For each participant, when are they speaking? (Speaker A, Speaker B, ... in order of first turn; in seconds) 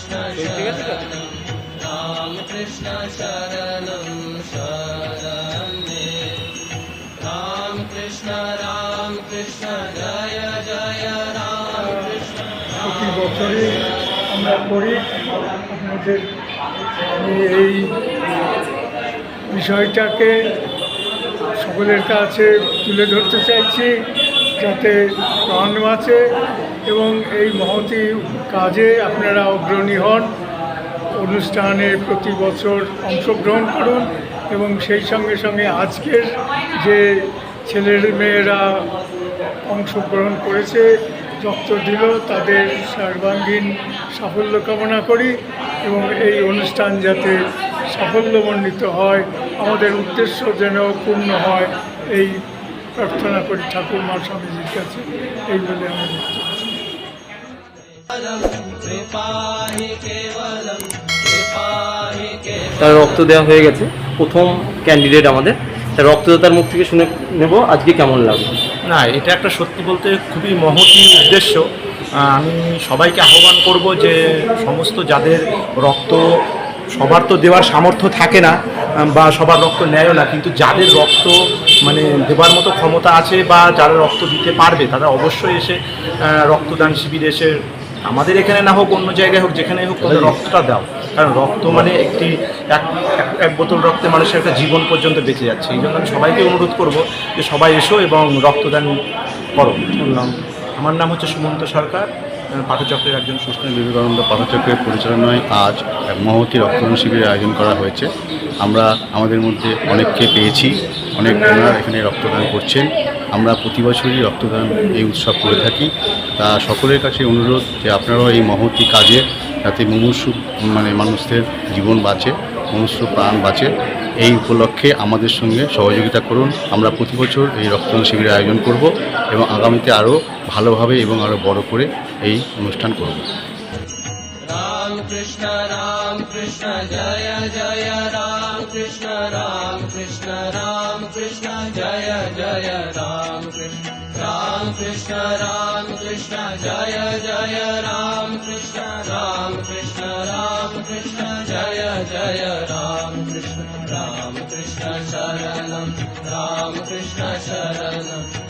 Speaker A: 0.4-1.0, 62.8-68.6
Speaker B: 0.4-1.0, 136.3-139.1, 139.6-143.1, 144.5-150.0, 150.6-151.2, 153.1-153.9
Speaker C: 11.7-12.1, 12.8-16.2, 17.2-17.9, 19.5-20.4, 21.6-23.9, 24.6-26.2, 26.9-30.3, 31.2-38.7, 39.7-40.9, 41.4-45.3, 45.9-47.4, 47.9-52.4, 53.0-56.6
Speaker D: 68.9-71.6, 72.3-76.2, 76.9-85.8, 86.3-98.9, 99.5-102.1, 102.6-103.7
Speaker E: 90.0-90.3, 103.7-108.1, 108.6-123.7, 124.2-133.3